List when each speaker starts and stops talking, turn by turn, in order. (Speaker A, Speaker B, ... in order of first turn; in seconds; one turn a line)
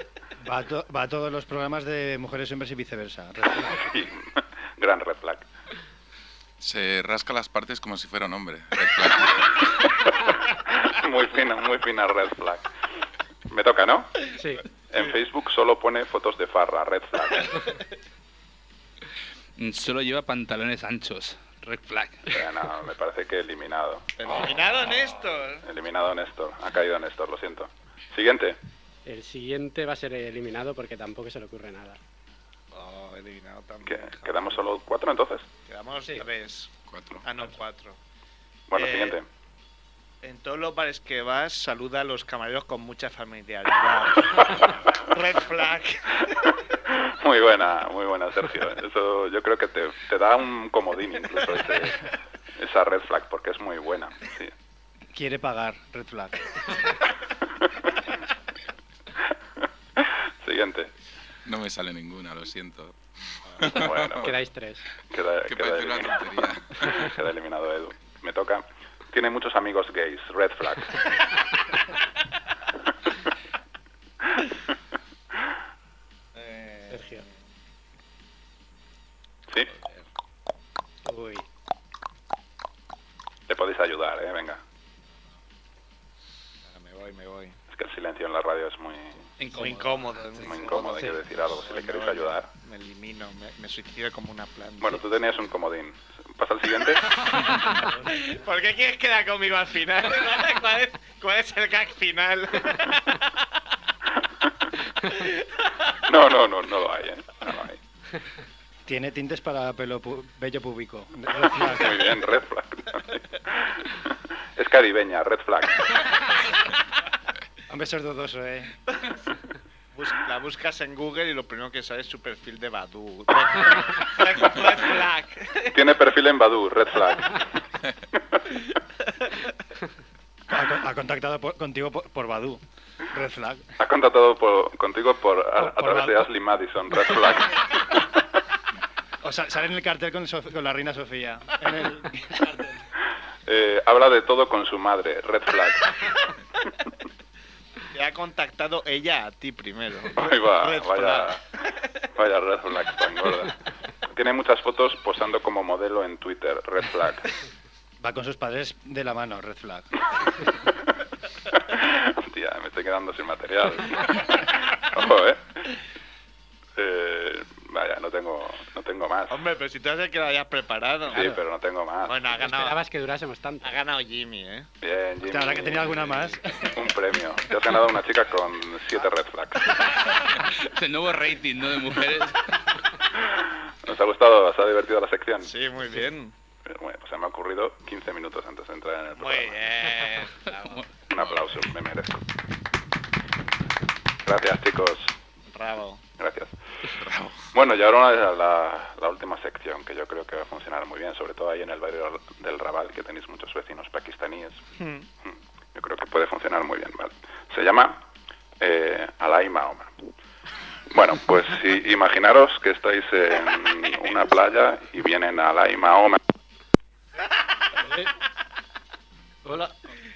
Speaker A: 0.4-3.8
Speaker B: 3.7-5.5
Speaker C: 6.6-9.8
Speaker B: 9.7-12.7
Speaker B: 13.5-14.3
Speaker D: 14.3-14.6
Speaker B: 14.9-17.7
Speaker E: 19.6-22.4
Speaker B: 22.3-24.1
Speaker F: 24.2-25.6
Speaker B: 25.6-28.6
Speaker D: 29.1-32.0
Speaker F: 32.7-34.7
Speaker B: 33.9-35.5
Speaker F: 35.7-38.0
Speaker C: 36.9-37.3
Speaker B: 38.7-39.3
Speaker F: 38.7-39.2
Speaker F: 40.2-46.4
Speaker B: 44.5-44.8
Speaker B: 46.9-54.5
Speaker A: 55.1-56.8
Speaker B: 60.0-60.9
Speaker C: 61.5-64.3
Speaker B: 63.6-64.4
Speaker D: 64.2-64.8
Speaker B: 65.1-71.1
Speaker C: 65.5-67.2
Speaker F: 76.4-77.2
Speaker D: 76.9-77.2
Speaker F: 79.7-80.0
Speaker D: 81.1-81.4
Speaker B: 83.5-84.6
Speaker F: 86.7-87.6
Speaker B: 87.7-89.2
Speaker E: 89.4-90.5
Speaker F: 89.5-95.0
Speaker B: 90.4-92.5
Speaker B: 94.8-97.5
Speaker F: 97.2-103.3
Speaker F: 105.1-105.7
Speaker B: 106.0-107.8
Speaker A: 108.9-112.1
Speaker B: 111.6-114.0
Speaker B: 114.6-116.4
Speaker A: 117.7-118.7
Speaker F: 119.9-125.8
Speaker B: 125.7-127.5
Speaker A: 130.5-133.6
Speaker B: 133.8-138.0
Speaker A: 135.6-136.2
Speaker A: 139.2-142.7
Speaker B: 143.5-146.2
Speaker F: 147.9-151.3
Speaker B: 150.2-151.4
Speaker B: 152.2-153.6
Speaker B: 154.1-157.3
Speaker A: 158.0-159.9
Speaker B: 161.6-165.6
Speaker B: 166.8-169.4
Speaker F: 169.3-171.3
Speaker B: 171.1-172.2
Speaker F: 172.1-172.8
Speaker D: 172.4-173.8
Speaker F: 173.6-174.7
Speaker B: 174.8-179.9
Speaker A: 175.2-176.7
Speaker E: 180.3-182.6
Speaker B: 183.1-185.5
Speaker F: 185.4-186.3
Speaker B: 186.7-190.0
Speaker F: 189.2-190.8
Speaker E: 190.6-190.8
Speaker B: 191.1-192.2
Speaker B: 194.2-195.2
Speaker F: 195.5-196.0
Speaker B: 196.2-197.0
Speaker C: 197.0-197.4
Speaker B: 197.5-204.6
Speaker F: 204.8-205.1
Speaker B: 205.8-208.0
Speaker B: 208.6-209.9
Speaker B: 210.9-216.2
Speaker F: 217.3-217.8